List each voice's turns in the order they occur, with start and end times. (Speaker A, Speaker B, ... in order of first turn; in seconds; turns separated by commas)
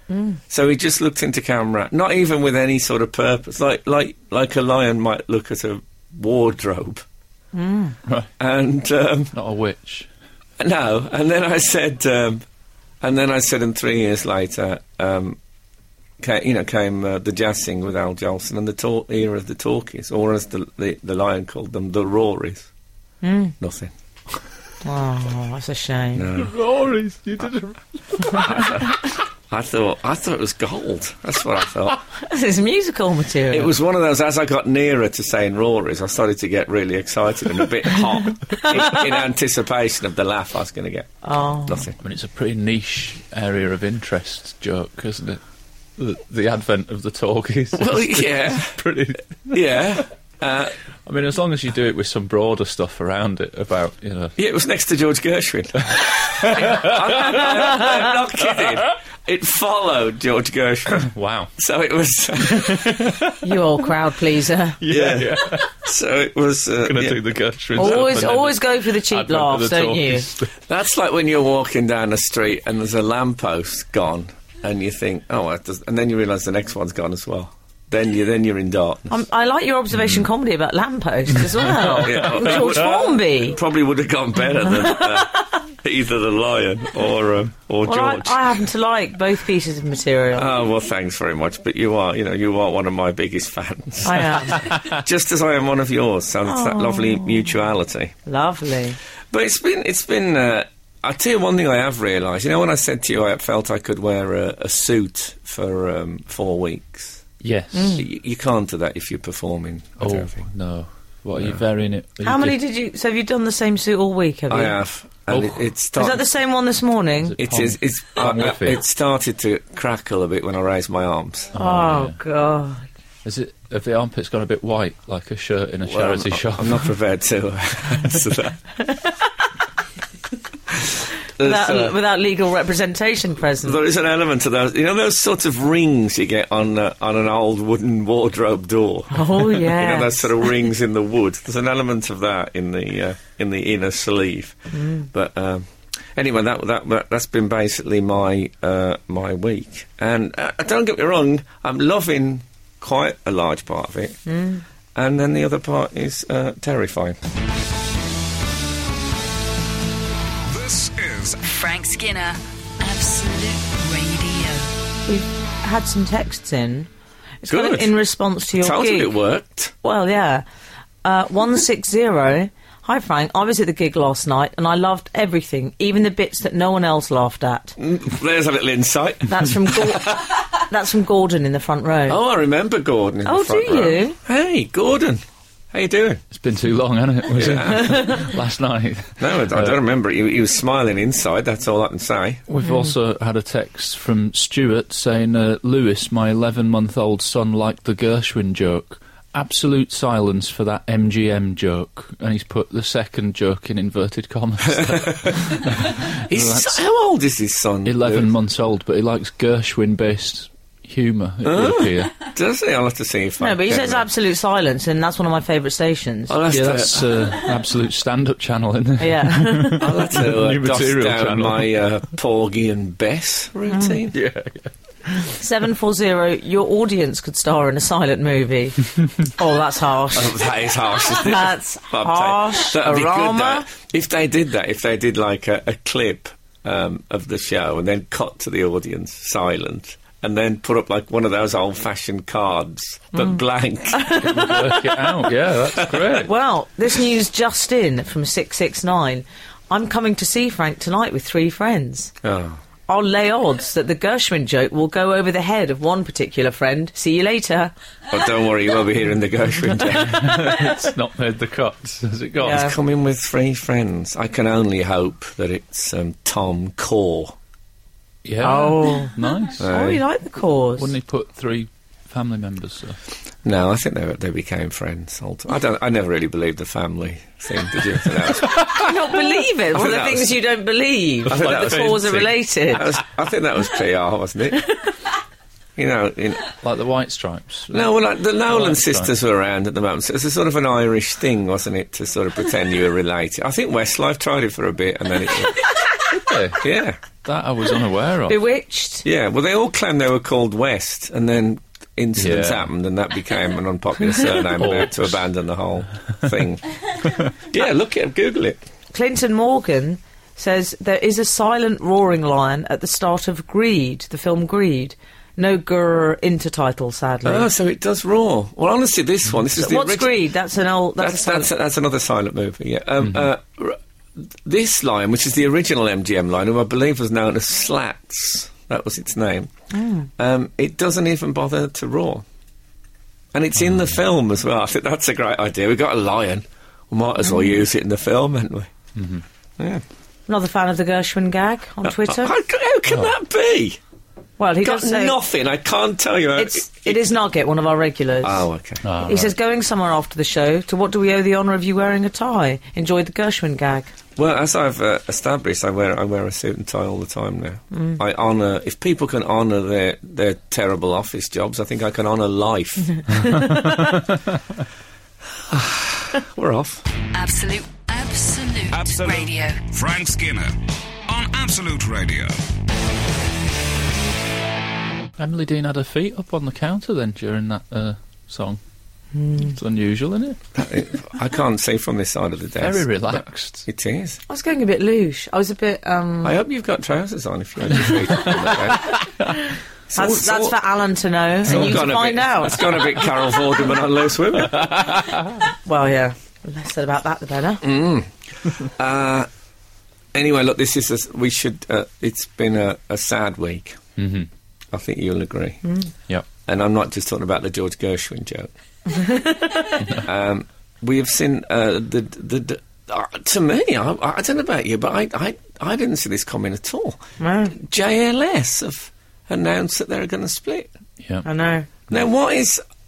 Speaker A: 0.1-0.4, Speaker B: 0.5-7.0, Speaker A: 7.5-8.0, Speaker B: 8.4-9.3, Speaker C: 9.3-10.1, Speaker B: 10.6-12.4, Speaker B: 13.0-15.4, Speaker B: 16.2-22.7, Speaker A: 23.2-23.5, Speaker B: 23.6-23.9, Speaker A: 24.8-26.2, Speaker B: 26.1-26.5, Speaker C: 26.3-28.9, Speaker B: 28.3-32.0, Speaker A: 32.2-33.7, Speaker B: 33.5-41.1, Speaker A: 38.5-39.0, Speaker A: 41.2-41.9, Speaker B: 41.6-42.0, Speaker C: 42.0-45.4, Speaker C: 46.0-49.8, Speaker B: 47.8-48.7, Speaker B: 49.5-50.7, Speaker C: 51.0-54.3, Speaker B: 54.4-63.2, Speaker C: 56.4-57.9, Speaker C: 61.0-61.5, Speaker C: 62.7-63.2, Speaker A: 63.4-64.8, Speaker C: 64.8-65.8, Speaker B: 64.8-67.2, Speaker C: 66.8-70.5, Speaker A: 67.8-70.2, Speaker B: 67.8-68.1, Speaker B: 70.7-79.2, Speaker A: 79.1-83.6, Speaker C: 81.8-82.4, Speaker B: 81.8-88.4, Speaker A: 84.6-85.4, Speaker A: 87.8-90.5, Speaker B: 90.3-98.1, Speaker A: 94.0-94.7, Speaker A: 96.5-97.5, Speaker A: 98.2-99.0, Speaker B: 99.3-107.2, Speaker C: 107.4-108.0, Speaker A: 107.7-108.0, Speaker B: 108.0-110.4, Speaker C: 110.0-112.6, Speaker B: 111.4-111.6, Speaker A: 112.2-114.8, Speaker B: 114.5-116.2, Speaker C: 115.3-115.6, Speaker A: 116.0-117.3, Speaker C: 117.2-118.8, Speaker B: 117.4-121.5, Speaker C: 121.5-122.2, Speaker A: 121.5-122.9, Speaker C: 123.2-126.9, Speaker B: 125.8-128.6, Speaker A: 128.8-129.2, Speaker B: 130.8-131.9, Speaker A: 131.4-133.8, Speaker B: 133.6-154.2, Speaker A: 139.1-140.3, Speaker A: 144.7-145.1, Speaker A: 154.2-154.6, Speaker B: 154.9-157.2, Speaker D: 160.4-161.4, Speaker E: 161.4-164.7, Speaker A: 165.1-166.9, Speaker A: 167.4-169.1, Speaker B: 167.5-167.9, Speaker B: 168.6-169.7, Speaker A: 169.8-170.4, Speaker A: 171.0-177.8, Speaker B: 177.8-180.2, Speaker A: 179.3-182.2, Speaker B: 182.1-186.2, Speaker A: 183.2-184.2, Speaker C: 186.3-189.8, Speaker B: 187.3-188.2, Speaker A: 187.8-188.2, Speaker B: 189.2-192.4, Speaker C: 192.5-206.8, Speaker A: 192.6-192.9, Speaker B: 205.1-205.5, Speaker B: 206.2-208.3, Speaker C: 207.8-212.2, Speaker B: 211.4-214.1, Speaker A: 213.4-216.3, Speaker B: 216.3-217.1, Speaker C: 216.5-221.7, Speaker A: 219.0-219.8, Speaker B: 219.8-224.2, Speaker C: 224.1-224.7, Speaker A: 225.3-230.4, Speaker B: 230.1-244.6, Speaker A: 231.1-233.7, Speaker A: 243.9-244.6, Speaker C: 244.2-246.3, Speaker B: 245.7-246.2, Speaker A: 246.2-252.1, Speaker B: 252.2-252.6, Speaker A: 252.9-257.7, Speaker B: 258.1-260.5, Speaker C: 260.0-262.7, Speaker A: 260.1-260.5, Speaker A: 262.4-262.7, Speaker B: 262.4-267.4, Speaker C: 268.2-269.7, Speaker A: 268.4-270.9, Speaker B: 269.6-270.0, Speaker C: 270.8-273.0, Speaker B: 273.4-278.9, Speaker A: 278.5-282.9, Speaker B: 279.7-280.4, Speaker C: 281.2-282.4, Speaker B: 281.3-282.1, Speaker B: 282.7-284.6, Speaker B: 285.8-286.5, Speaker C: 286.6-287.9, Speaker B: 287.7-295.7, Speaker C: 288.5-289.1, Speaker C: 296.1-296.7, Speaker B: 296.5-297.0, Speaker C: 297.2-298.4, Speaker A: 298.3-299.1, Speaker B: 299.0-306.6, Speaker C: 302.2-302.7, Speaker C: 304.6-305.2, Speaker B: 307.3-308.6, Speaker A: 308.9-317.5, Speaker B: 317.2-320.1, Speaker A: 319.5-321.5, Speaker B: 321.0-329.5, Speaker A: 329.7-330.1, Speaker B: 330.2-332.2, Speaker B: 333.3-338.7, Speaker C: 338.9-339.2, Speaker B: 339.6-339.8, Speaker A: 340.3-342.3, Speaker B: 341.8-343.8, Speaker A: 344.4-345.2, Speaker B: 344.6-347.1, Speaker A: 346.4-348.4, Speaker B: 348.2-348.8, Speaker C: 348.8-349.3, Speaker A: 349.0-353.9, Speaker B: 354.2-363.1, Speaker A: 357.7-358.0, Speaker A: 363.1-363.8, Speaker C: 363.4-364.0, Speaker B: 365.5-366.8, Speaker E: 367.1-369.6, Speaker D: 368.7-370.6, Speaker D: 371.1-372.4, Speaker C: 375.2-378.6, Speaker A: 379.1-379.5, Speaker C: 379.4-380.4, Speaker B: 380.5-384.2, Speaker C: 382.6-383.7, Speaker A: 384.3-386.4, Speaker B: 386.2-389.0, Speaker B: 389.9-390.6, Speaker A: 389.9-392.8, Speaker B: 391.4-394.7, Speaker C: 394.6-395.3, Speaker A: 395.6-397.6, Speaker B: 397.6-399.3, Speaker B: 400.1-403.8, Speaker C: 404.0-404.3, Speaker B: 404.7-405.6, Speaker A: 405.6-405.9, Speaker B: 406.4-408.5, Speaker A: 408.9-409.8, Speaker B: 409.9-417.0, Speaker A: 417.2-417.5, Speaker B: 417.5-420.7, Speaker A: 421.2-421.7, Speaker B: 421.9-422.6